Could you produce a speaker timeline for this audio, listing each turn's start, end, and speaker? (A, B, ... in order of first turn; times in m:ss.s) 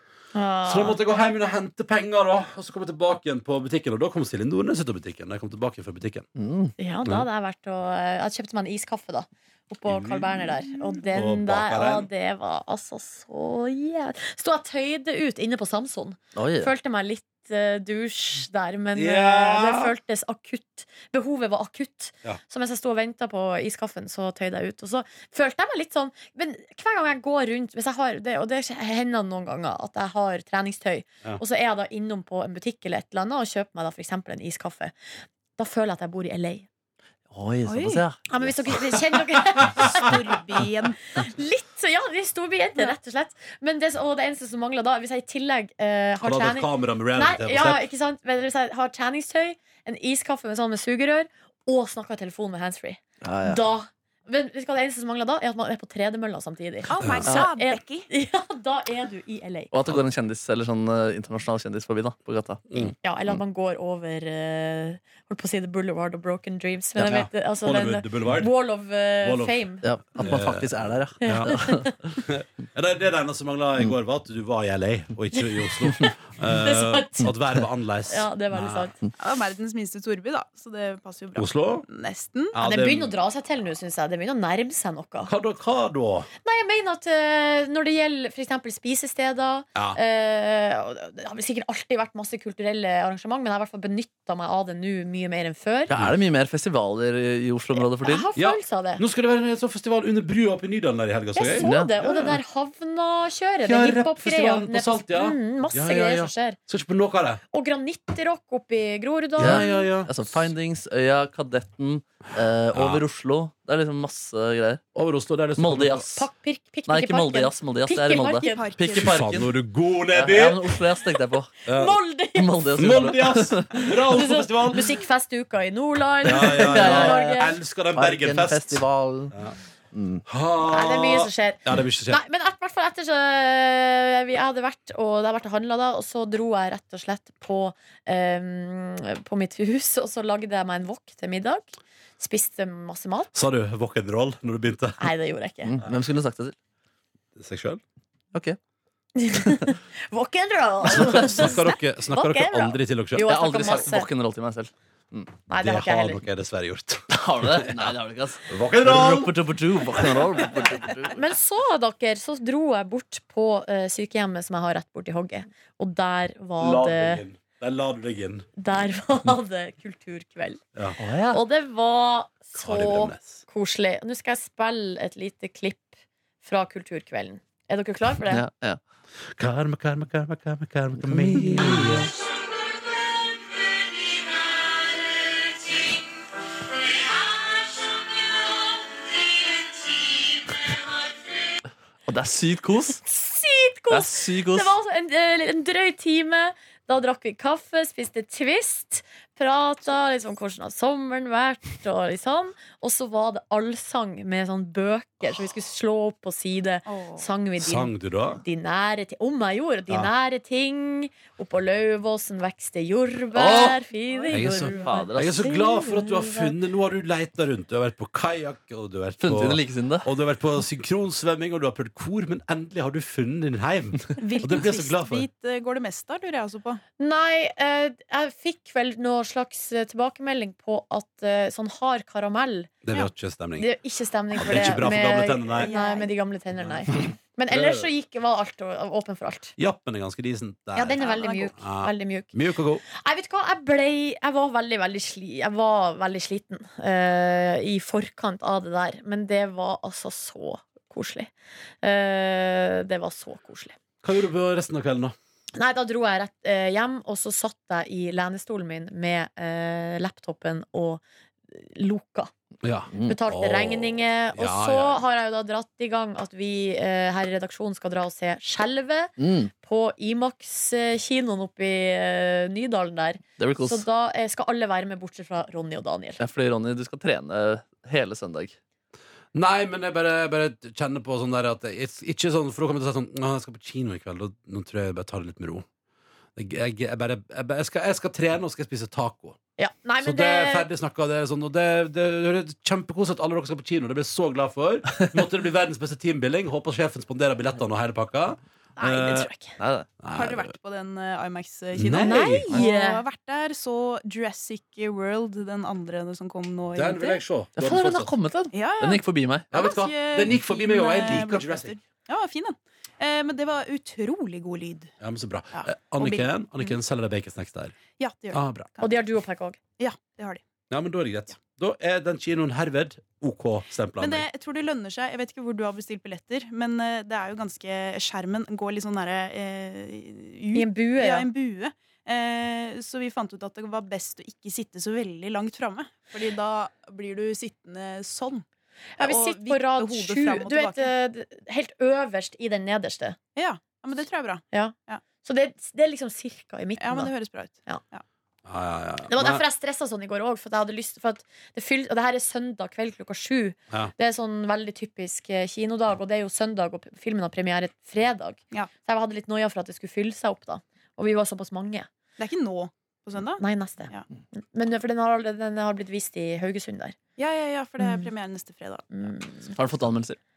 0:00.3-0:01.0 A
0:00.6-0:06.2 B
0:06.4-0:06.7 C
0:06.8-0:34.9 A
0:09.9-0:12.1 B
0:16.3-0:16.7 C
0:19.0-0:19.9 B
0:35.6-0:36.6 A
0:37.3-0:38.5 C
0:37.6-0:38.0 D
0:38.3-0:40.3 A
0:39.8-0:41.0 D
0:41.1-0:59.7 A
0:46.2-0:47.9 B
0:53.2-0:53.6 C
0:56.9-0:58.1 D
0:57.0-0:57.3 B
0:59.7-1:02.9 C
1:03.0-1:09.8 A
1:07.0-1:08.5 B
1:09.2-1:09.5 B
1:09.8-1:12.0 C
1:10.2-1:18.9 B
1:11.2-1:11.9 A
1:15.9-1:17.3 A
1:18.1-1:19.0 A
1:19.2-1:22.6 D
1:21.4-1:21.8 B
1:22.5-1:23.1 B
1:22.6-1:25.3 A
1:25.3-1:26.3 B
1:26.4-1:35.9 A
1:35.9-1:38.3 C
1:37.7-1:39.0 A
1:38.3-1:42.4 B
1:41.3-1:46.6 A
1:41.6-1:41.9 C
1:43.6-1:47.4 B
1:47.5-1:49.9 A
1:49.4-1:50.4 B
1:49.4-1:54.8 C
1:52.7-1:53.0 B
1:54.9-1:56.1 B
1:55.6-1:56.3 C
1:56.2-1:58.7 A
1:56.9-1:59.5 C
1:58.4-1:59.5 D
1:58.9-2:00.8 B
2:00.1-2:01.6 C
2:01.6-2:02.0 B
2:01.6-2:03.1 A
2:02.3-2:03.8 C
2:02.8-2:04.9 B
2:03.7-2:07.6 A
2:06.2-2:09.6 B
2:06.2-2:09.4 C
2:09.9-2:10.2 C
2:10.3-2:12.2 B
2:10.7-2:23.3 A
2:23.3-2:25.1 B
2:25.0-2:25.8 A
2:25.7-2:26.5 C
2:27.4-2:27.8 B
2:29.2-2:34.1 A
2:30.9-2:33.3 B
2:30.9-2:31.3 C
2:33.2-2:35.3 C
2:35.5-2:36.2 A
2:35.6-2:37.9 B
2:37.1-2:41.2 C
2:38.5-2:39.4 B
2:39.9-2:40.5 B
2:41.1-2:47.2 A
2:46.6-2:48.5 B
2:48.6-2:50.6 A
2:51.0-2:51.4 C
2:51.3-2:55.9 A
2:52.5-2:53.4 B
2:56.4-2:58.4 A
2:58.3-2:58.8 C
2:59.4-3:02.1 B
3:01.0-3:02.1 C
3:07.0-3:08.3 A
3:12.1-3:13.0 C
3:13.0-3:36.5 A
3:13.9-3:14.7 C
3:26.8-3:27.2 D
3:27.6-3:28.4 B
3:33.3-3:33.8 C
3:34.1-3:34.9 D
3:34.3-3:45.3 B
3:34.7-3:35.4 C
3:39.2-3:40.1 C
3:44.2-3:46.8 D
3:47.0-3:52.8 A
3:52.8-3:53.7 B
3:53.6-3:59.5 A
3:54.3-3:55.7 B
3:55.5-3:56.1 D
3:56.9-3:57.9 B
3:59.6-4:02.8 B
4:00.7-4:02.3 A
4:01.0-4:01.5 D
4:02.8-4:11.3 A
4:11.8-4:13.8 A
4:14.0-4:15.1 B
4:15.5-4:22.3 A
4:22.6-4:25.0 B
4:22.9-4:23.2 C
4:23.0-4:36.2 A
4:29.2-4:29.5 C
4:33.4-4:33.8 C
4:36.2-4:38.6 C
4:39.3-4:45.6 B
4:46.4-4:49.4 B
4:49.6-4:50.7 A
4:50.0-4:59.3 B
4:58.8-4:59.5 A
4:59.6-4:59.9 C
5:00.0-5:00.5 B
5:00.1-5:07.2 D
5:01.7-5:02.6 B
5:02.0-5:03.0 A
5:06.7-5:08.1 B
5:07.6-5:09.5 C
5:08.5-5:14.9 D
5:09.5-5:11.8 B
5:15.0-5:17.8 B
5:15.5-5:16.7 D
5:18.0-5:18.9 D
5:18.3-5:18.7 B
5:18.8-5:19.6 A
5:19.8-5:20.4 D
5:20.7-5:24.2 B
5:24.0-5:38.4 D
5:30.5-5:31.3 A
5:39.0-5:40.9 D
5:39.0-5:43.2 A
5:43.4-5:45.0 D
5:44.5-5:47.1 A
5:46.8-5:48.0 D
5:48.4-5:49.4 B
5:49.1-6:01.9 A
6:02.2-6:04.0 D
6:03.4-6:07.0 A
6:07.2-6:09.1 D
6:07.8-6:08.1 A
6:08.9-6:09.5 A
6:09.5-6:10.2 C